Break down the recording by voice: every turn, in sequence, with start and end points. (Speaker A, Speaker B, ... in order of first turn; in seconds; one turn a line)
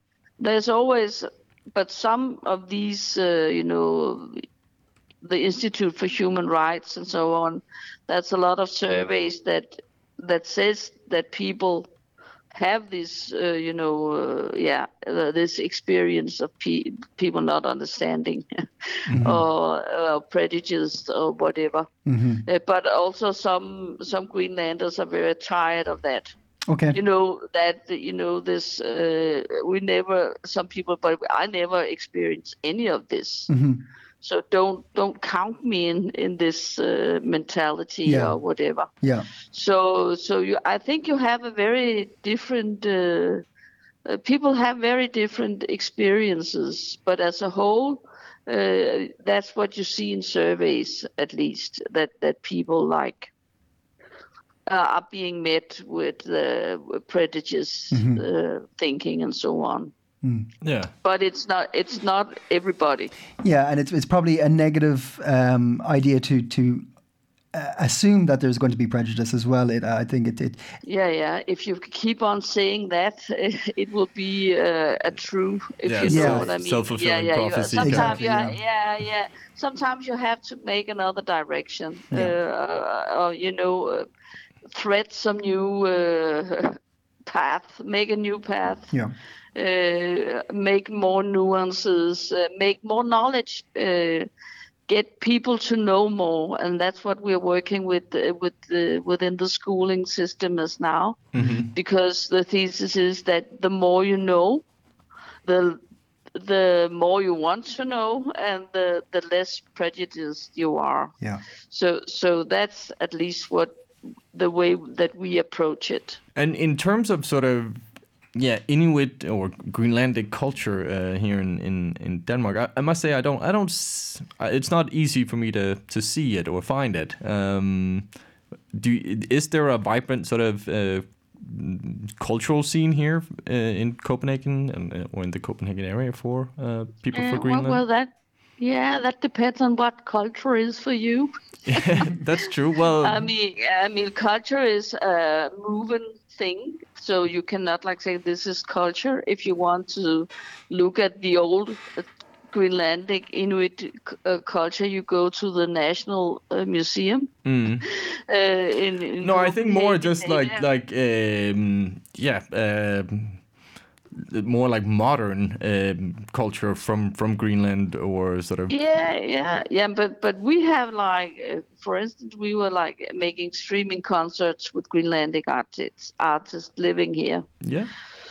Speaker A: 0.4-4.4
Speaker A: 5.2-11.9
Speaker A: 12.5-21.9
Speaker B: 19.1-19.4
Speaker B: 22.1-22.4
Speaker A: 22.4-26.3
Speaker B: 26.7-27.0
Speaker A: 26.9-33.5
Speaker B: 33.5-33.8
Speaker A: 34.2-38.9
Speaker B: 38.0-38.4
Speaker B: 39.0-39.3
Speaker A: 39.4-43.4
Speaker A: 44.0-53.3
Speaker A: 54.6-59.9
Speaker B: 57.9-58.2
Speaker B: 60.2-60.5
Speaker C: 60.6-60.9
Speaker A: 61.0-63.1
Speaker B: 63.4-66.8
Speaker B: 67.5-70.6
Speaker A: 70.8-84.0
Speaker C: 75.8-78.2
Speaker B: 76.0-76.5
Speaker B: 77.8-78.6
Speaker A: 84.7-89.0
Speaker A: 89.5-94.3
Speaker A: 94.9-104.6
Speaker C: 101.3-101.7
Speaker A: 105.4-105.8
Speaker A: 106.3-111.1
Speaker A: 111.7-113.7
Speaker A: 114.3-116.2
Speaker C: 116.3-117.8
Speaker C: 118.3-128.1
Speaker C: 128.7-137.8
Speaker A: 137.1-142.2
Speaker C: 141.7-143.2
Speaker A: 143.0-157.3
Speaker C: 157.4-157.8
Speaker A: 157.8-160.6
Speaker C: 159.2-163.4
Speaker C: 164.1-168.7
Speaker A: 168.7-177.4
Speaker C: 177.6-177.9